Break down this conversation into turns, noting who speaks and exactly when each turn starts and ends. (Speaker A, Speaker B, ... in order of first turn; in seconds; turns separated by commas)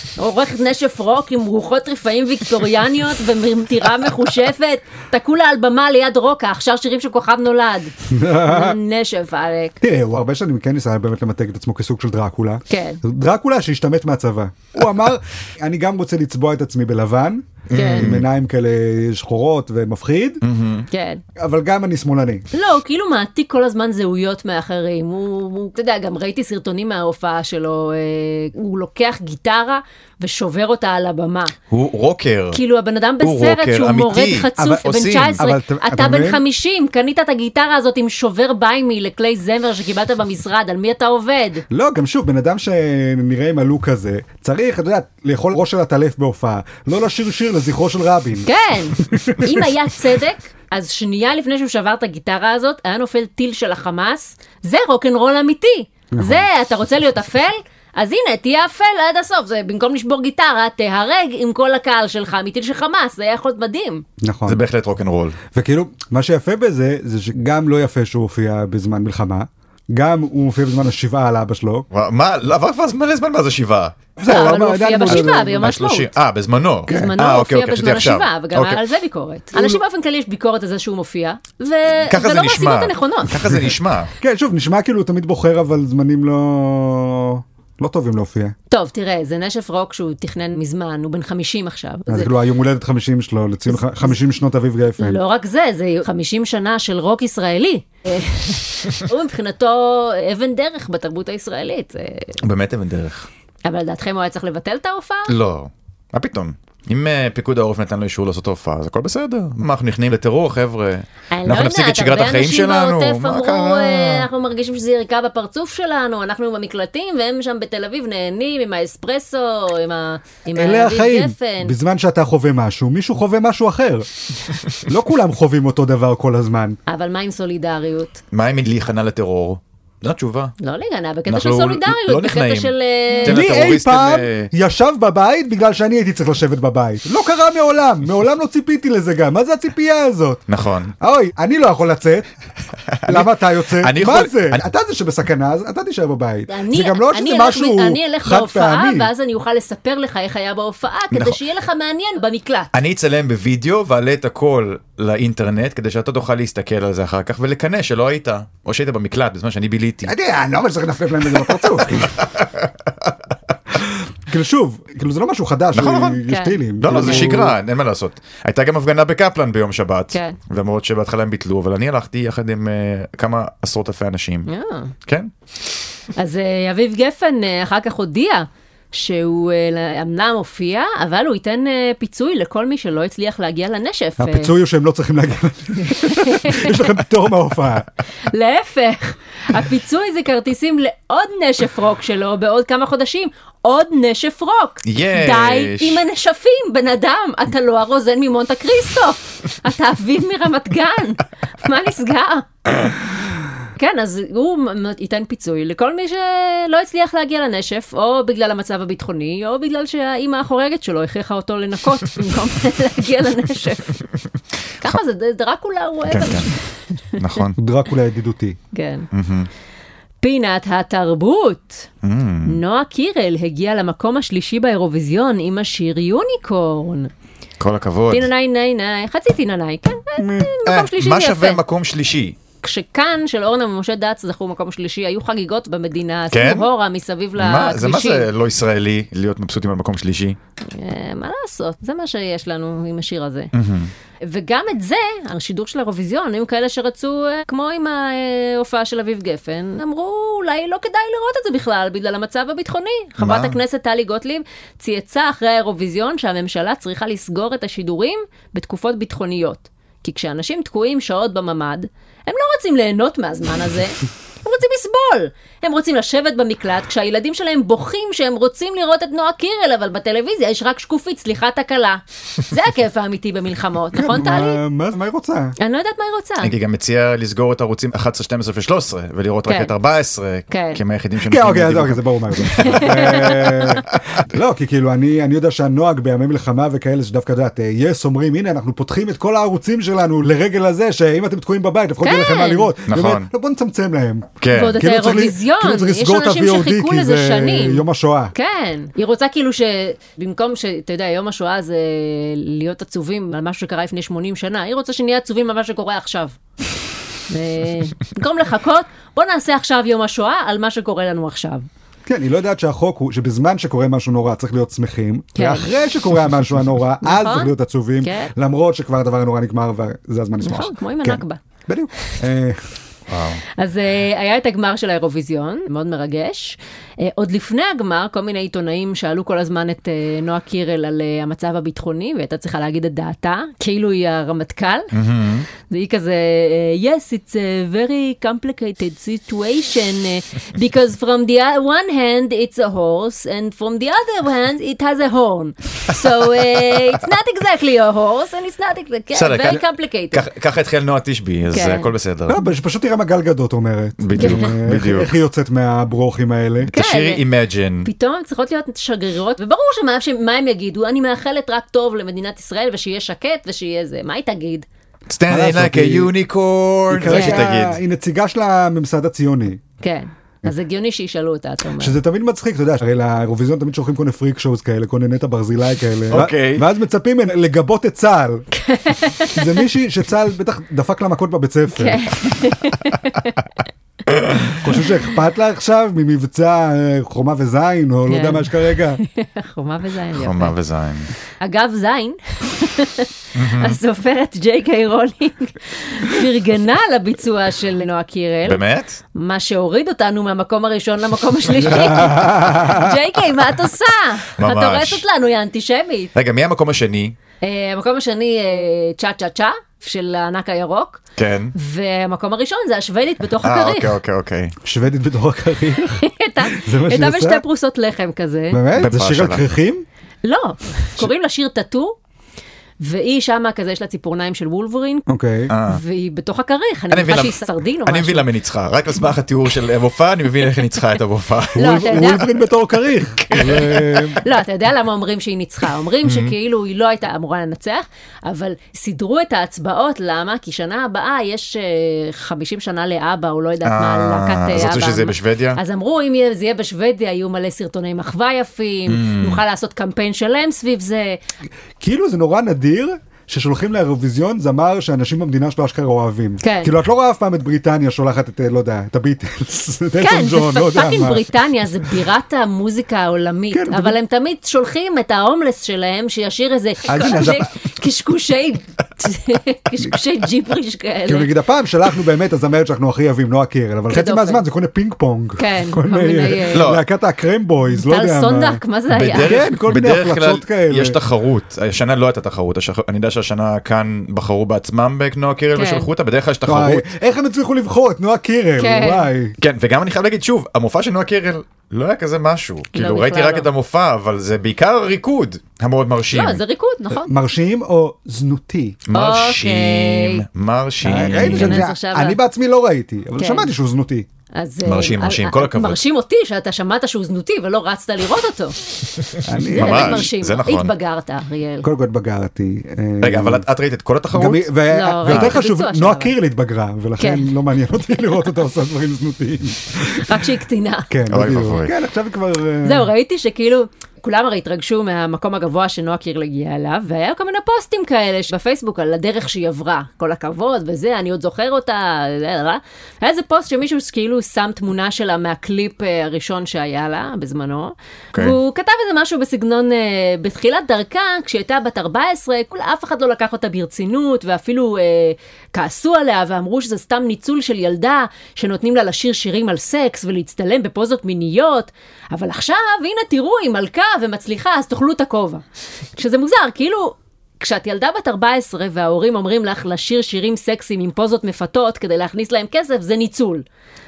Speaker A: 0.2-9.8, Speaker B: 8.1-8.8, Speaker B: 9.8-20.4, Speaker A: 12.7-13.0, Speaker C: 17.7-18.2, Speaker A: 17.7-18.1, Speaker C: 20.4-20.9, Speaker A: 20.9-21.2, Speaker B: 21.4-22.4, Speaker A: 22.5-31.5, Speaker C: 31.7-32.6, Speaker A: 32.5-41.6, Speaker C: 33.2-35.4, Speaker B: 34.6-36.4, Speaker B: 41.7-48.5, Speaker A: 48.5-64.0, Speaker B: 49.0-49.6, Speaker B: 56.1-56.4, Speaker B: 64.2-64.6, Speaker C: 64.5-65.4, Speaker B: 65.5-71.8, Speaker C: 71.9-74.0, Speaker B: 74.2-75.6, Speaker A: 74.3-76.1, Speaker C: 75.1-78.8, Speaker B: 76.9-77.1, Speaker A: 76.9-83.4, Speaker B: 79.5-79.8, Speaker C: 82.0-84.1, Speaker B: 84.2-88.5, Speaker A: 88.7-92.3, Speaker B: 92.1-95.2, Speaker A: 93.7-94.2, Speaker A: 95.0-102.4, Speaker C: 102.4-103.3, Speaker A: 103.6-105.3, Speaker C: 105.3-114.3, Speaker A: 111.3-121.7, Speaker B: 120.5-124.1, Speaker B: 124.7-126.8, Speaker A: 126.9-128.2, Speaker C: 128.3-130.5, Speaker A: 130.6-133.4, Speaker C: 131.3-134.5, Speaker B: 133.2-140.4, Speaker C: 140.5-140.9, Speaker B: 141.0-142.3, Speaker C: 142.9-144.7, Speaker B: 143.1-149.1, Speaker A: 146.5-152.7, Speaker C: 151.1-151.4, Speaker C: 152.7-160.1, Speaker B: 160.1-162.2, Speaker C: 161.3-163.1, Speaker B: 164.3-167.5, Speaker C: 165.7-166.2, Speaker A: 166.3-167.3, Speaker C: 166.8-174.5, Speaker A: 174.5-174.9, Speaker C: 175.1-175.3, Speaker A: 176.2-184.5, Speaker B: 184.2-187.9, Speaker A: 185.8-186.9, Speaker A: 188.3-202.7, Speaker C: 194.8-196.0, Speaker A: 203.8-214.0, Speaker A: 214.8-217.3, Speaker C: 216.1-216.5, Speaker C: 217.2-217.6, Speaker B: 217.6-218.6, Speaker A: 218.7-219.1, Speaker C: 219.1-219.5, Speaker A: 220.2-221.9, Speaker C: 222.0-222.6, Speaker A: 222.4-227.1, Speaker C: 227.6-228.3, Speaker A: 228.1-231.6, Speaker B: 230.2-230.5, Speaker C: 230.6-232.4, Speaker A: 232.6-238.3, Speaker C: 236.3-236.7, Speaker C: 237.3-240.4, Speaker A: 240.7-243.5, Speaker C: 243.5-243.9, Speaker A: 244.2-274.6, Speaker C: 253.2-253.6, Speaker B: 273.9-275.5, Speaker A: 275.6-276.5, Speaker C: 276.4-283.4, Speaker A: 280.5-280.8, Speaker B: 281.2-298.3, Speaker A: 282.6-283.8, Speaker A: 292.0-292.7, Speaker C: 292.9-293.3, Speaker C: 294.4-294.8, Speaker A: 294.5-297.8, Speaker A: 298.3-306.4, Speaker A: 307.3-311.6, Speaker B: 312.1-322.7, Speaker A: 315.4-315.7, Speaker A: 317.0-318.3, Speaker A: 320.4-321.4, Speaker C: 323.1-323.4, Speaker A: 323.6-334.9, Speaker C: 334.9-335.4, Speaker A: 335.6-350.2, Speaker C: 349.1-352.4, Speaker A: 351.5-351.9, Speaker B: 352.3-356.7, Speaker C: 354.0-355.1, Speaker A: 354.2-354.5, Speaker C: 356.6-357.9, Speaker A: 356.7-357.2, Speaker A: 357.8-364.6, Speaker C: 365.1-367.8, Speaker B: 365.3-366.1, Speaker B: 366.9-369.6, Speaker A: 367.1-367.4, Speaker A: 369.8-372.0, Speaker B: 371.8-378.5, Speaker C: 376.1-376.6, Speaker A: 378.5-379.6, Speaker B: 379.3-382.0, Speaker A: 381.7-383.4, Speaker C: 384.2-384.5, Speaker B: 384.5-389.0, Speaker A: 388.1-390.5, Speaker C: 390.1-391.1, Speaker A: 391.4-398.6, Speaker C: 393.3-393.8, Speaker C: 398.4-399.0, Speaker A: 399.1-406.1, Speaker B: 401.7-402.9, Speaker C: 404.4-405.0, Speaker C: 406.1-407.1, Speaker A: 407.4-411.0, Speaker C: 411.1-411.5, Speaker A: 411.5-413.9, Speaker C: 413.4-414.5, Speaker B: 414.6-417.4, Speaker A: 416.0-418.6, Speaker B: 418.5-419.8, Speaker C: 418.7-419.5, Speaker A: 420.2-421.9, Speaker A: 422.8-425.1, Speaker B: 425.1-425.5, Speaker C: 425.5-425.8, Speaker A: 425.6-428.2, Speaker C: 426.9-432.1, Speaker B: 431.5-434.2, Speaker A: 431.6-432.3, Speaker C: 433.2-434.1, Speaker A: 434.2-451.2, Speaker C: 436.0-436.3, Speaker C: 443.6-445.6, Speaker C: 448.9-449.4, Speaker B: 451.8-461.2, Speaker A: 456.4-456.7, Speaker A: 460.0-471.3, Speaker B: 463.5-463.9, Speaker B: 466.9-467.6, Speaker B: 471.1-481.0, Speaker A: 473.9-474.4, Speaker A: 475.4-476.7, Speaker C: 476.5-476.8, Speaker A: 477.7-479.4, Speaker C: 478.9-486.9, Speaker A: 485.5-485.9, Speaker B: 486.4-489.4, Speaker A: 488.6-489.1, Speaker C: 489.4-496.4, Speaker A: 492.7-493.5, Speaker A: 496.1-497.1, Speaker B: 496.9-498.8, Speaker C: 498.9-501.6, Speaker A: 498.9-500.2, Speaker B: 500.8-504.1, Speaker A: 501.1-502.2, Speaker A: 503.2-503.5, Speaker A: 504.3-508.6, Speaker C: 504.6-505.8, Speaker B: 509.2-510.1, Speaker C: 509.5-510.7, Speaker A: 509.5-511.7, Speaker B: 511.6-513.4, Speaker C: 513.0-514.5, Speaker B: 514.1-520.2, Speaker A: 514.7-516.1, Speaker C: 515.0-515.4, Speaker A: 517.0-517.3, Speaker A: 520.0-520.9, Speaker B: 520.9-522.9, Speaker C: 521.1-521.7, Speaker A: 522.6-555.4, Speaker A: 556.0-563.4